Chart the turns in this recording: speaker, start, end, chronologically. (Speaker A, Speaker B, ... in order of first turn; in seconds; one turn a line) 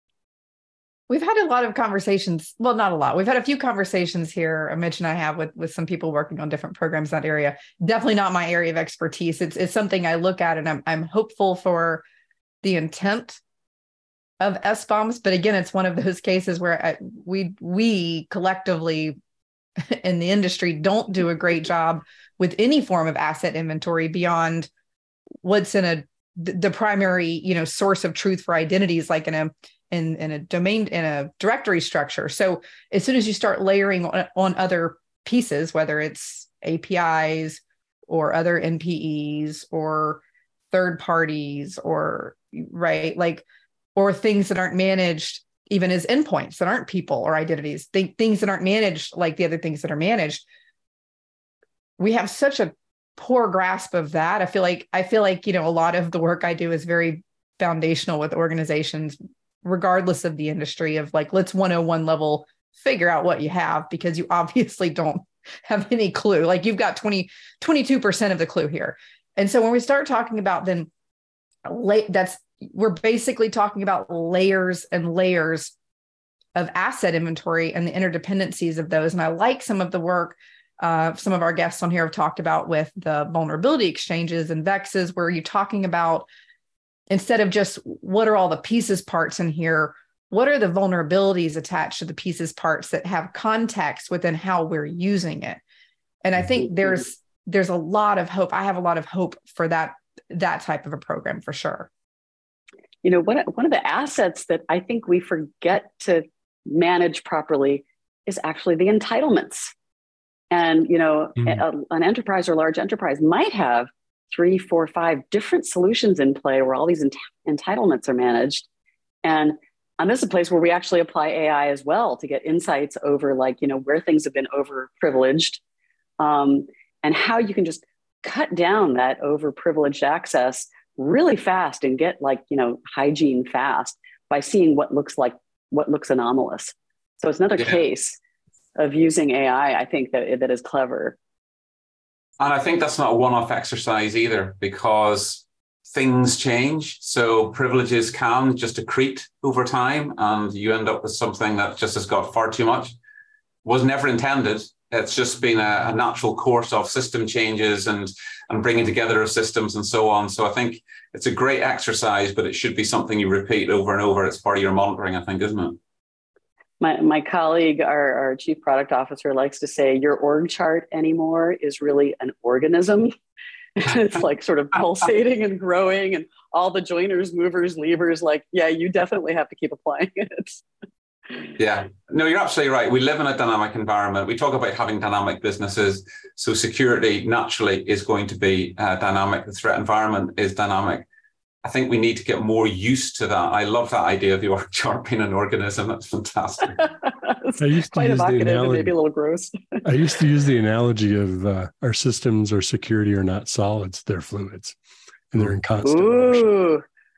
Speaker A: 1.1-12.0
Speaker A: 12.6-13.4
Speaker A: 14.4-19.1
Speaker A: 19.9-24.7
Speaker A: 25.4-43.4
Speaker A: 43.9-50.4
Speaker A: 52.0-70.9
Speaker A: 71.7-75.7
Speaker A: 76.5-86.3
Speaker A: 87.1-95.6
Speaker A: 96.2-101.9
Speaker B: 103.0-109.7
Speaker B: 110.5-118.7
Speaker B: 119.2-125.6
Speaker B: 126.2-138.2
Speaker B: 138.8-141.2
Speaker C: 142.4-152.9
Speaker C: 153.6-165.8
Speaker B: 166.8-173.1
Speaker B: 173.8-180.6
Speaker C: 181.6-191.1
Speaker C: 191.6-196.9
Speaker B: 197.0-199.8
Speaker D: 197.6-198.9
Speaker D: 199.8-204.8
Speaker D: 205.3-206.5
Speaker B: 205.8-206.8